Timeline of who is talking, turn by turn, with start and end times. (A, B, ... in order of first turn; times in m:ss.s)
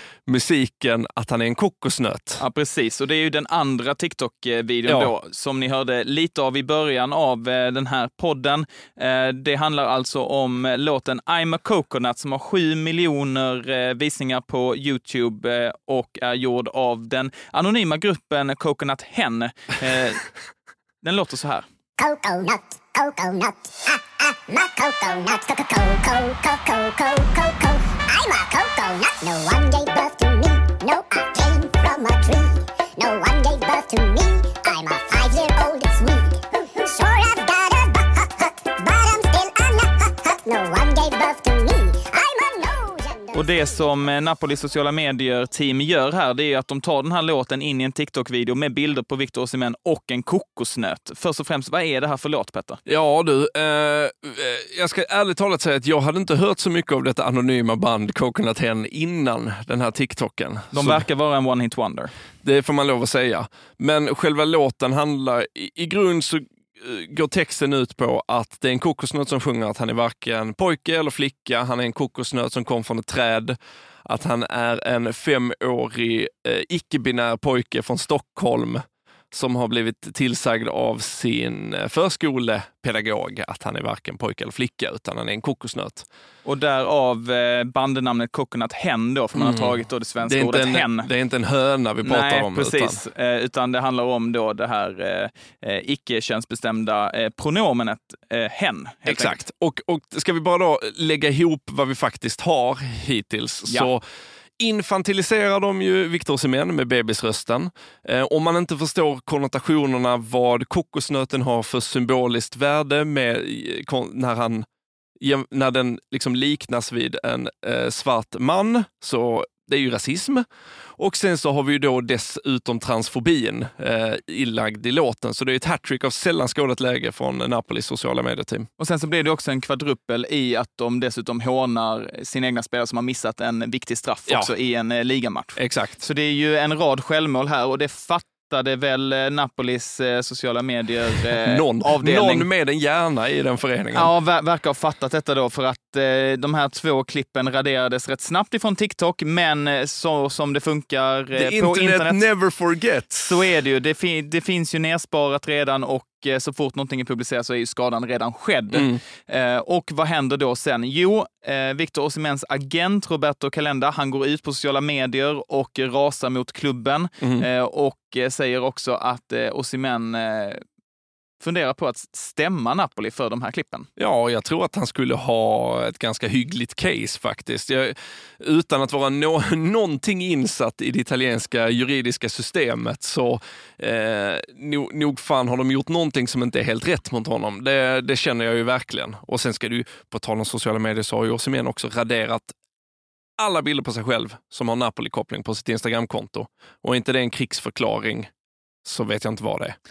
0:00.3-0:02.4 A
0:02.4-0:20.2 B
0:04.9-0:05.1 A
0:21.0-0:21.6 B
0:22.0-0:43.6 C
0:43.3-0:52.8 B
0:52.8-1:01.0 A
1:00.7-1:02.1 B
1:02.4-1:26.1 A
1:26.4-1:31.1 B
1:29.3-1:33.0 A
1:32.0-1:39.4 B
1:39.1-1:44.0 A
1:44.6-1:54.6 A
1:55.2-2:00.4 A
2:01.0-2:08.7 A
2:08.8-2:22.5 B
2:15.6-2:16.1 A
2:21.4-2:24.1 A
2:23.9-2:32.2 B
2:31.3-2:33.4 A
2:33.3-2:50.6 B
2:38.7-2:39.0 A
2:47.2-2:47.4 A
2:51.4-2:53.9 B
2:54.0-3:12.5 A
3:13.4-3:18.3 A
3:18.8-3:19.8 A